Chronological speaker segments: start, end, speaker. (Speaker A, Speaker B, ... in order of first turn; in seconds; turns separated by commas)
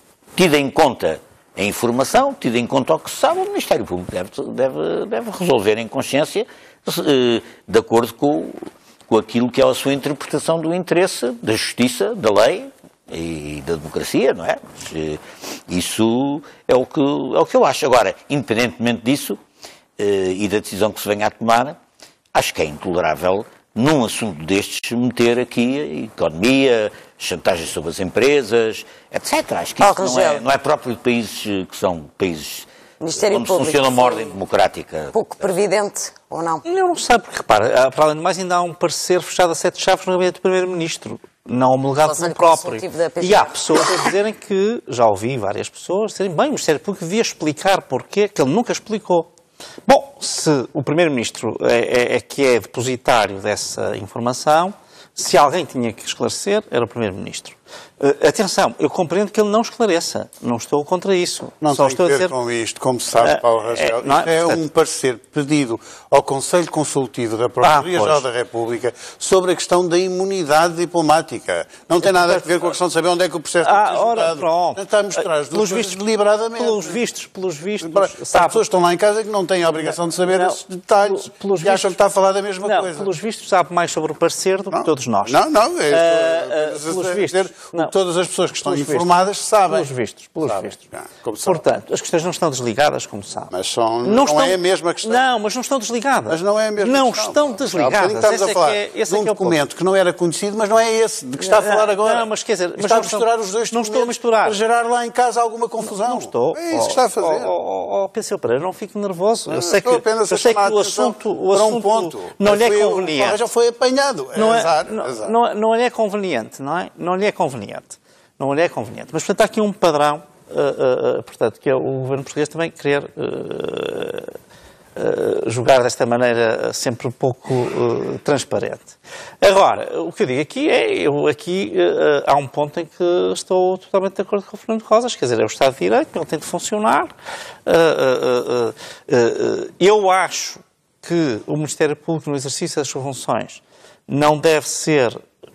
Speaker A: 0.4-19.4, Speaker A: 20.0-21.8, Speaker A: 22.3-35.1, Speaker B: 29.8-30.4, Speaker B: 33.0-34.4, Speaker B: 35.1-36.6, Speaker C: 36.6-49.3, Speaker B: 42.0-44.0, Speaker C: 49.9-62.3, Speaker D: 61.6-77.0, Speaker C: 63.2-64.6, Speaker C: 67.6-68.2, Speaker C: 72.1-72.4, Speaker C: 73.6-76.0, Speaker C: 76.6-78.6, Speaker D: 77.8-83.1, Speaker C: 79.8-82.0, Speaker C: 82.6-87.9, Speaker D: 84.7-89.9, Speaker C: 88.5-89.1, Speaker C: 89.7-90.8, Speaker D: 90.4-91.6, Speaker C: 91.4-93.5, Speaker D: 93.5-95.2, Speaker C: 94.0-99.6, Speaker D: 96.3-107.5, Speaker C: 101.4-104.6, Speaker C: 105.8-113.4, Speaker D: 109.5-115.3, Speaker C: 114.3-124.3, Speaker C: 125.0-137.1, Speaker C: 137.7-145.2